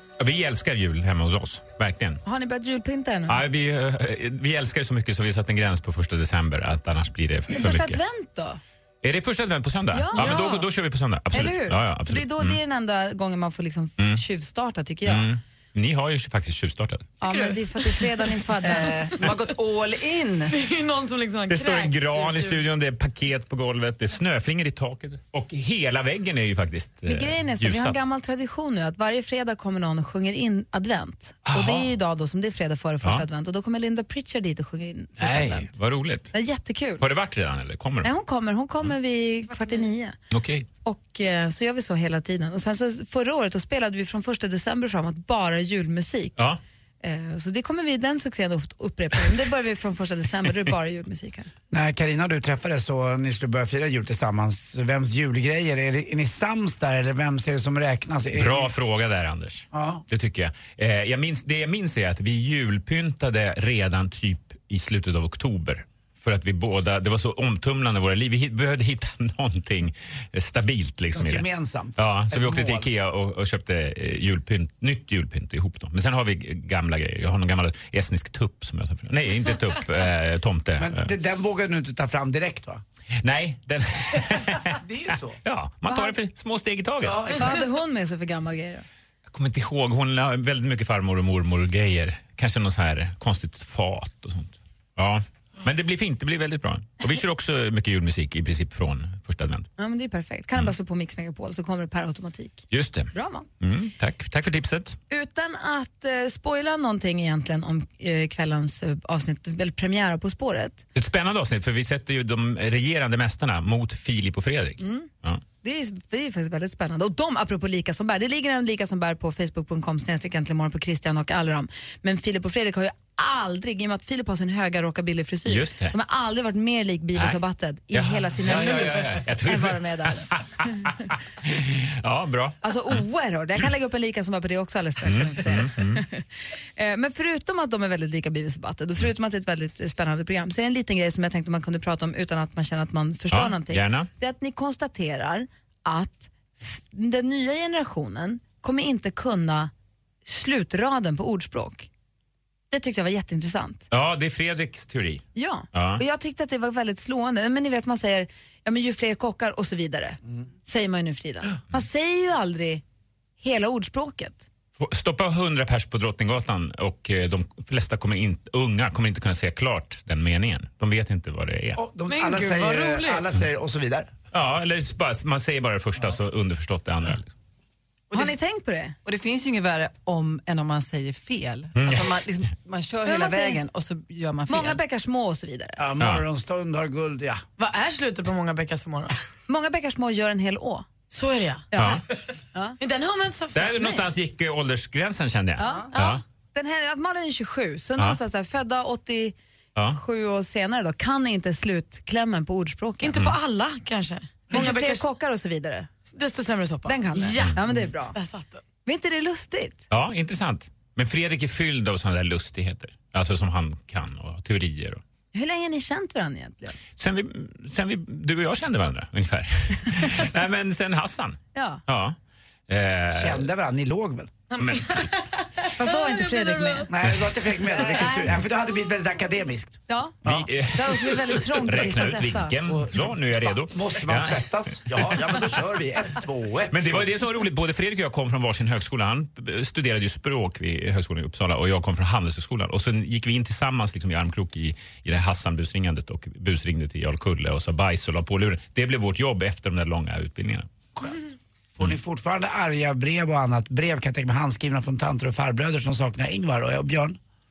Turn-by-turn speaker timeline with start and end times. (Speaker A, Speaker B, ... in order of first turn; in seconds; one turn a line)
Speaker A: 0.2-2.2
Speaker B: 2.2-3.4
Speaker A: 3.3-8.0
Speaker B: 7.5-8.6
Speaker A: 9.0-12.6
Speaker B: 9.9-10.7
Speaker B: 11.3-15.3
Speaker A: 15.1-17.2
Speaker B: 17.2-19.2
Speaker C: 17.3-18.0
Speaker D: 18.6-20.5
Speaker C: 20.5-22.6
Speaker A: 21.5-28.0
Speaker B: 27.1-35.7
Speaker A: 31.5-31.9
Speaker A: 35.2-36.3
Speaker B: 36.3-37.0
Speaker A: 37.0-38.1
Speaker B: 38.0-40.1
Speaker A: 40.3-40.7
Speaker B: 40.9-46.4
Speaker B: 47.0-51.5
Speaker E: 51.7-58.7
Speaker A: 58.4-71.5
Speaker E: 59.7-60.0
Speaker E: 71.1-72.9
Speaker A: 72.0-81.1
Speaker E: 80.8-82.8
Speaker A: 83.2-84.8
Speaker E: 84.7-85.4
Speaker A: 85.4-87.4
Speaker B: 85.9-86.2
Speaker E: 87.0-87.5
Speaker B: 87.3-88.8
Speaker A: 89.3-99.7
Speaker B: 99.8-103.5
Speaker A: 102.7-103.1
Speaker A: 103.6-105.0
Speaker B: 105.1-110.8
Speaker A: 111.0-115.4
Speaker B: 114.8-115.1
Speaker B: 115.6-130.9
Speaker A: 125.5-125.9
Speaker A: 127.9-132.6
Speaker B: 132.6-149.7
Speaker A: 135.0-136.0
Speaker A: 143.3-144.1
Speaker B: 150.2-151.9
Speaker B: 152.7-153.9
Speaker A: 153.9-156.0
Speaker B: 155.3-162.8
Speaker B: 163.4-164.5
Speaker A: 164.8-171.8
Speaker E: 171.8-174.1
Speaker C: 172.1-173.3
Speaker A: 174.3-177.3
Speaker B: 178.1-179.0
Speaker D: 179.0-184.8
Speaker A: 181.8-182.2
Speaker B: 183.1-183.6
Speaker B: 184.5-185.8
Speaker E: 185.8-187.5
Speaker C: 187.6-189.2
Speaker B: 189.5-190.9
Speaker C: 191.1-191.7
Speaker B: 191.7-192.0
Speaker A: 191.8-192.0
Speaker C: 192.8-194.0
Speaker A: 193.5-196.2
Speaker B: 195.6-199.4
Speaker B: 199.9-203.2
Speaker C: 203.0-205.1
Speaker B: 204.5-205.9
Speaker C: 206.1-207.6
Speaker B: 206.8-208.2
Speaker C: 208.1-208.6
Speaker B: 208.9-209.8
Speaker A: 209.9-215.0
Speaker B: 215.3-216.8
Speaker A: 217.0-222.2
Speaker B: 221.6-221.8
Speaker A: 222.7-223.5
Speaker E: 223.1-224.3
Speaker A: 224.6-225.1
Speaker C: 225.6-226.9
Speaker B: 225.8-226.9
Speaker E: 226.9-230.5
Speaker B: 227.8-228.3
Speaker B: 229.9-232.5
Speaker A: 230.2-235.3
Speaker E: 232.6-237.1
Speaker A: 236.7-250.7
Speaker E: 251.8-257.2